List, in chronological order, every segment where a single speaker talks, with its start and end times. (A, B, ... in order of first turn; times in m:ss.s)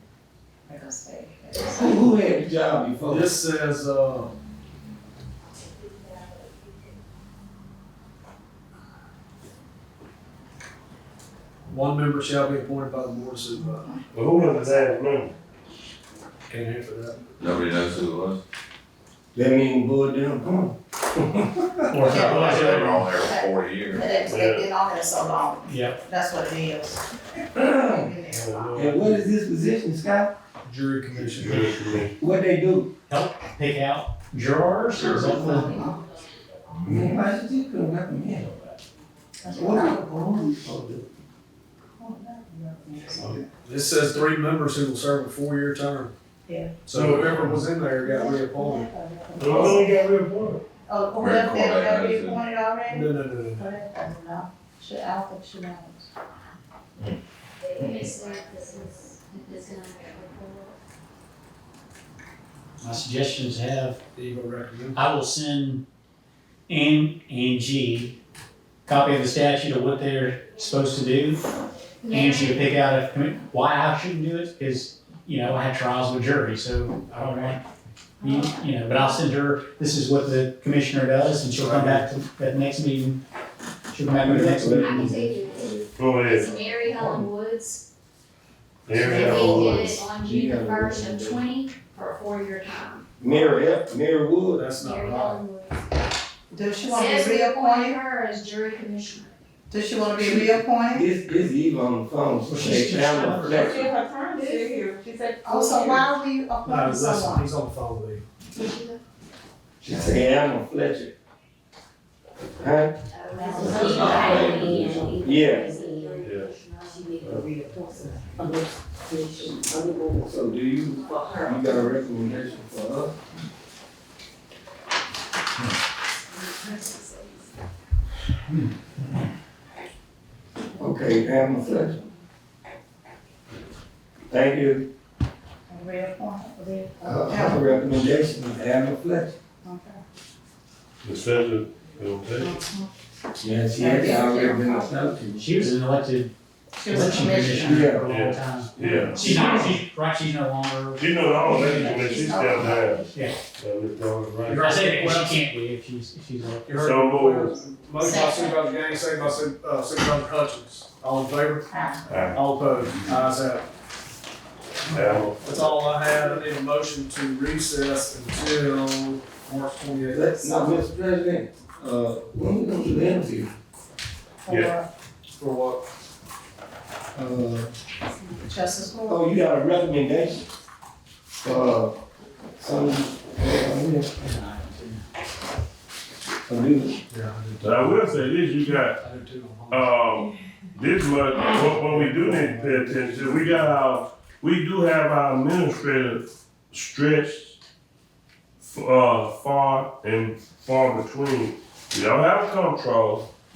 0:00.7-0:02.0 A
0:01.7-0:03.4 B
0:03.1-0:04.3 C
0:11.7-0:13.9 C
0:14.1-0:15.4 D
0:14.2-0:15.0 A
0:16.5-0:17.2 C
0:17.4-0:18.4 E
0:19.4-0:22.0 B
0:21.9-0:23.1 F
0:22.0-0:27.0 A
0:22.2-0:24.1 E
0:24.3-0:24.7 D
0:25.6-0:26.0 F
0:27.6-0:28.1 B
0:27.9-0:28.9 A
0:28.3-0:29.2 D
0:28.8-0:30.3 B
0:30.6-0:31.8 C
0:31.2-0:32.1 D
0:32.2-0:32.9 B
0:33.1-0:35.9 F
0:34.9-0:35.7 B
0:35.6-0:36.0 A
0:36.8-0:38.8 B
0:39.4-0:40.1 A
0:39.5-0:41.1 B
0:42.0-0:43.4 A
0:43.2-0:46.1 C
0:46.5-0:46.8 A
0:46.9-0:48.8 C
0:48.0-0:49.9 A
0:49.4-0:50.6 D
0:49.5-0:49.8 B
0:50.9-0:56.1 A
0:51.2-0:52.4 E
0:52.9-0:53.7 C
0:57.6-1:00.8 G
1:02.8-1:04.0 F
1:04.2-1:05.0 C
1:05.0-1:05.8 F
1:06.7-1:08.1 F
1:08.9-1:11.4 F
1:12.0-1:12.5 G
1:12.1-1:17.6 F
1:18.2-1:23.2 F
1:23.9-1:25.2 F
1:24.2-1:25.9 B
1:25.0-1:27.8 G
1:26.0-1:26.6 D
1:28.9-1:29.9 D
1:29.0-1:31.5 B
1:29.2-1:33.0 G
1:33.2-1:34.7 B
1:34.6-1:35.4 C
1:34.8-1:35.8 G
1:36.5-1:38.0 A
1:36.8-1:39.3 G
1:39.7-1:41.1 A
1:40.2-1:43.9 B
1:42.5-1:43.9 F
1:43.7-1:46.0 H
1:45.4-1:47.5 A
1:46.7-1:48.2 C
1:49.8-1:51.1 B
1:52.6-1:52.9 B
1:53.3-1:55.8 G
1:53.3-1:54.6 A
1:54.0-1:54.8 E
1:54.2-2:00.3 H
1:55.2-1:55.7 B
1:56.2-1:56.5 D
1:57.2-1:57.5 D
2:00.2-2:03.2 B
2:01.0-2:02.3 H
2:10.8-2:12.0 B
2:14.3-2:14.9 B
2:15.7-2:17.7 A
2:17.0-2:19.4 B
2:19.6-2:20.0 A
2:21.0-2:22.5 D
2:22.4-2:22.9 A
2:23.4-2:25.6 B
2:23.8-2:24.9 A
2:25.4-2:26.3 F
2:26.8-2:27.8 A
2:26.9-2:33.4 F
2:27.0-2:28.1 B
2:28.1-2:29.8 D
2:31.0-2:33.0 D
2:31.5-2:33.0 A
2:33.6-2:35.0 D
2:34.5-2:35.4 C
2:34.5-2:36.7 F
2:36.7-2:41.7 C
2:36.8-2:37.6 D
2:38.0-2:38.6 G
2:41.7-2:42.3 A
2:42.1-2:42.4 D
2:42.3-2:43.6 C
2:44.9-2:45.4 D
2:45.1-2:50.8 C
2:50.1-2:53.5 B
2:50.4-2:50.7 A
2:54.4-2:54.8 A
2:54.5-2:54.7 D
2:55.4-2:55.8 C
2:57.2-2:57.7 B
2:58.3-2:59.2 A
2:59.1-3:00.5 B
3:01.4-3:02.0 B
3:02.6-3:04.4 B
3:04.2-3:05.0 F
3:06.5-3:07.0 B
3:07.1-3:09.9 C
3:07.6-3:09.0 D
3:09.7-3:17.6 D
3:11.8-3:13.6 C
3:18.6-3:23.3 D